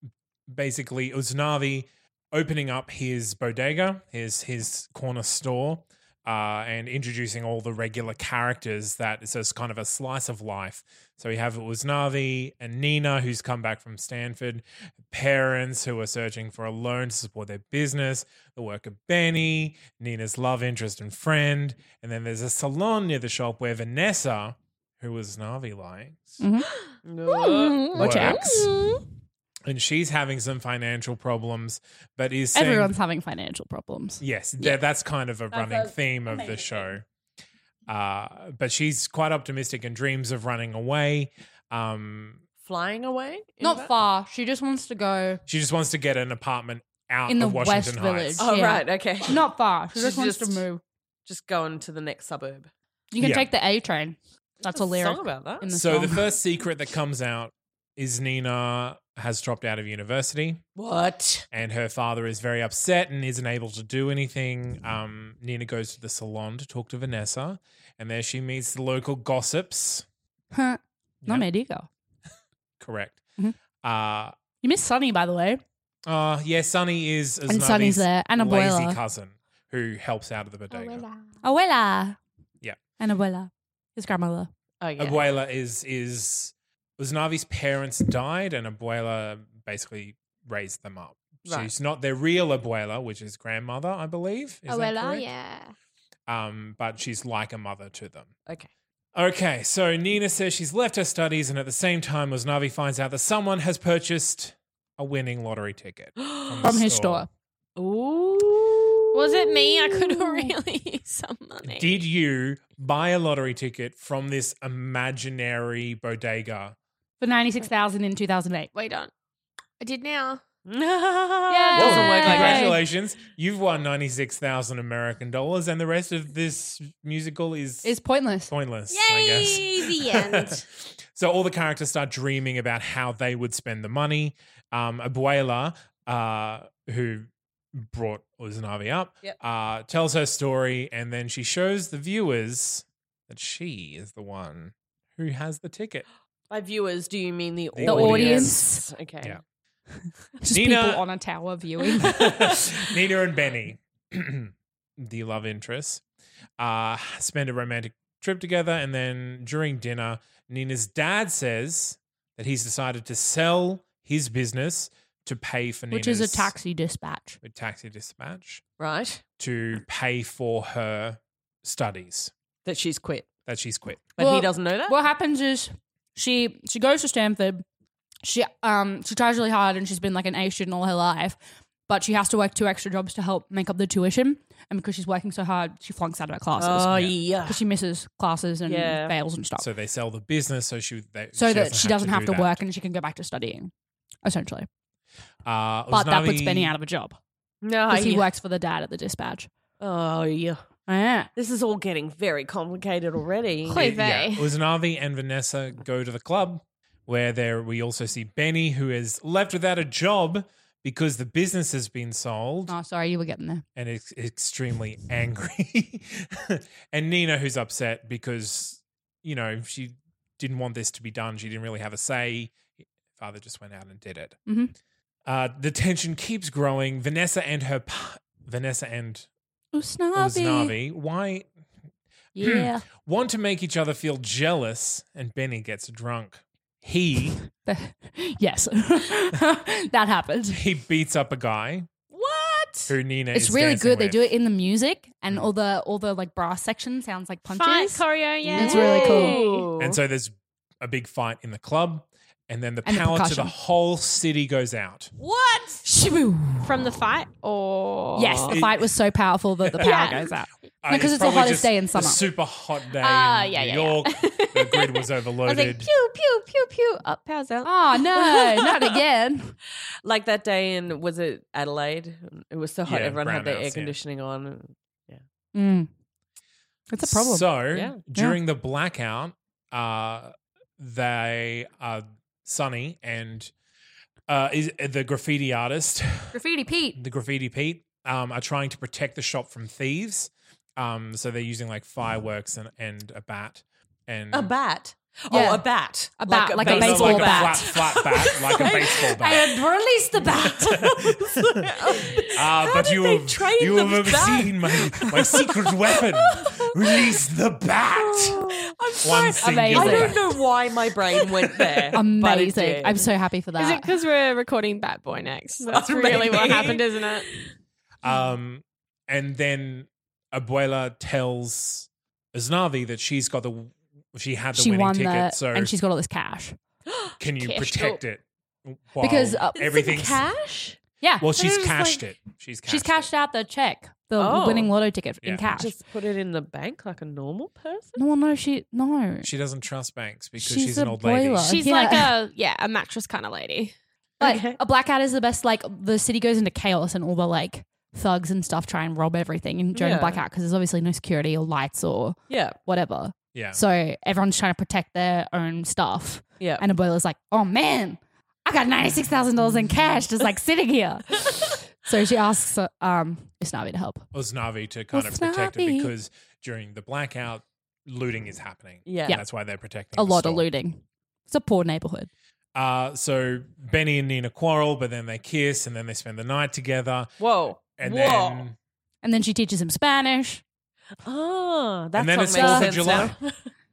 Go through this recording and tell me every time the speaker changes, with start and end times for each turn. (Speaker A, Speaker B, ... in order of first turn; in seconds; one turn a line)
Speaker A: 0.5-26.4
Speaker B: 26.4-26.7
Speaker C: 27.0-28.5
Speaker D: 27.3-29.0
Speaker B: 27.9-28.5
Speaker A: 27.9-28.7
Speaker A: 29.6-32.9
Speaker B: 32.5-34.8
Speaker A: 34.2-37.0
Speaker A: 37.9-42.4
Speaker C: 42.6-43.9
Speaker B: 43.6-45.4
Speaker A: 45.5-48.5
Speaker B: 47.3-50.8
Speaker C: 48.4-50.6
Speaker C: 51.2-52.7
Speaker B: 53.1-56.3
Speaker A: 53.2-53.5
Speaker C: 54.6-55.7
Speaker A: 55.7-60.6
Speaker C: 60.8-61.5
Speaker A: 61.5-70.0
Speaker B: 70.5-71.9
Speaker A: 72.8-73.2
Speaker A: 73.8-74.3
Speaker B: 74.6-75.6
Speaker A: 76.0-81.0
Speaker B: 77.5-79.0
Speaker D: 80.7-81.3
Speaker B: 81.4-82.2
Speaker B: 83.0-84.5
Speaker C: 84.8-85.3
Speaker A: 85.0-95.2
Speaker C: 91.4-91.7
Speaker D: 94.7-95.7
Speaker A: 96.3-98.3
Speaker A: 99.1-107.2
Speaker C: 106.2-106.8
Speaker B: 106.6-107.3
Speaker C: 107.8-110.2
Speaker D: 109.1-112.0
Speaker A: 111.6-116.7
Speaker B: 117.2-118.7
Speaker D: 118.7-119.1
Speaker D: 119.8-120.4
Speaker C: 120.7-122.7
Speaker B: 121.5-122.8
Speaker A: 121.8-127.9
Speaker B: 127.8-128.5
Speaker A: 128.5-146.1
Speaker D: 128.9-130.6
Speaker C: 146.5-149.4
Speaker A: 147.7-148.6
Speaker B: 147.8-148.9
Speaker B: 149.9-152.2
Speaker A: 150.5-151.0
Speaker A: 152.0-156.0
Speaker C: 152.2-152.5
Speaker A: 156.6-166.5
Speaker B: 165.9-167.4
Speaker A: 167.4-168.6
Speaker C: 168.8-169.2
Speaker A: 169.4-172.3
Speaker C: 172.6-173.3
Speaker A: 173.4-174.1
Speaker C: 174.2-175.0
Speaker B: 174.2-177.6
Speaker B: 178.2-181.4
Speaker B: 181.9-189.7
Speaker C: 186.6-187.6
Speaker A: 186.9-187.1
Speaker C: 188.7-189.2
Speaker A: 189.6-192.6
Speaker B: 191.3-193.7
Speaker B: 194.2-194.7
Speaker A: 195.4-196.8
Speaker B: 195.9-197.2
Speaker C: 197.6-198.3
Speaker B: 197.9-199.5
Speaker C: 199.8-200.6
Speaker B: 200.9-201.3
Speaker C: 201.3-203.9
Speaker D: 203.7-204.5
Speaker A: 203.7-212.7
Speaker B: 212.7-213.6
Speaker A: 213.8-222.6
Speaker A: 223.1-224.4
Speaker B: 224.5-224.7
Speaker A: 225.2-229.3
Speaker B: 229.7-230.8
Speaker A: 230.1-231.5
Speaker B: 232.3-232.8
Speaker A: 232.4-237.4
Speaker B: 237.6-240.6
Speaker A: 240.5-241.9
Speaker C: 242.1-243.0
Speaker A: 242.9-244.2
Speaker B: 243.3-249.4
Speaker D: 247.5-249.7
Speaker C: 248.4-250.0
Speaker A: 249.8-255.1
Speaker B: 252.8-253.5
Speaker D: 255.2-255.8
Speaker B: 255.8-256.7
Speaker D: 256.6-258.6
Speaker B: 258.1-262.2
Speaker A: 258.5-258.9
Speaker D: 259.8-260.4
Speaker A: 260.8-265.9
Speaker D: 262.9-268.0
Speaker B: 267.6-269.6
Speaker C: 270.0-275.2
Speaker A: 272.9-273.9
Speaker B: 275.5-275.9
Speaker B: 276.9-277.5
Speaker A: 277.1-283.5
Speaker C: 277.7-278.0
Speaker A: 284.3-286.3
Speaker B: 286.3-287.0
Speaker A: 286.9-294.5
Speaker C: 294.3-299.0
Speaker B: 295.3-297.8
Speaker A: 296.6-299.6
Speaker B: 299.2-300.9
Speaker A: 300.4-301.7
Speaker C: 301.2-305.2
Speaker A: 302.3-310.4
Speaker C: 308.0-313.1
Speaker B: 309.4-310.2
Speaker A: 311.5-311.9
Speaker B: 311.9-313.9
Speaker D: 313.6-317.3
Speaker C: 315.6-317.4
Speaker A: 316.0-316.8
Speaker A: 318.0-325.7
Speaker B: 324.5-326.6
Speaker A: 327.2-330.2
Speaker D: 327.4-328.0
Speaker B: 329.0-329.6
Speaker C: 329.6-330.8
Speaker B: 331.0-331.3
Speaker A: 331.2-333.1
Speaker C: 331.3-332.1
Speaker B: 332.7-335.7
Speaker C: 334.2-334.7
Speaker C: 335.5-338.0
Speaker B: 338.0-339.3
Speaker A: 339.2-341.5
Speaker B: 340.4-342.1
Speaker D: 341.4-343.7
Speaker C: 344.2-344.6
Speaker B: 344.2-364.1
Speaker C: 349.7-350.2
Speaker C: 352.3-352.6
Speaker A: 353.3-353.6
Speaker C: 356.4-356.6
Speaker A: 364.1-370.4
Speaker B: 364.9-365.9
Speaker C: 368.8-369.2
Speaker B: 369.9-372.1
Speaker A: 372.5-377.1
Speaker C: 377.2-378.5
Speaker A: 377.7-378.6
Speaker B: 379.0-380.4
Speaker C: 381.0-383.5
Speaker A: 381.9-383.1
Speaker B: 382.3-383.1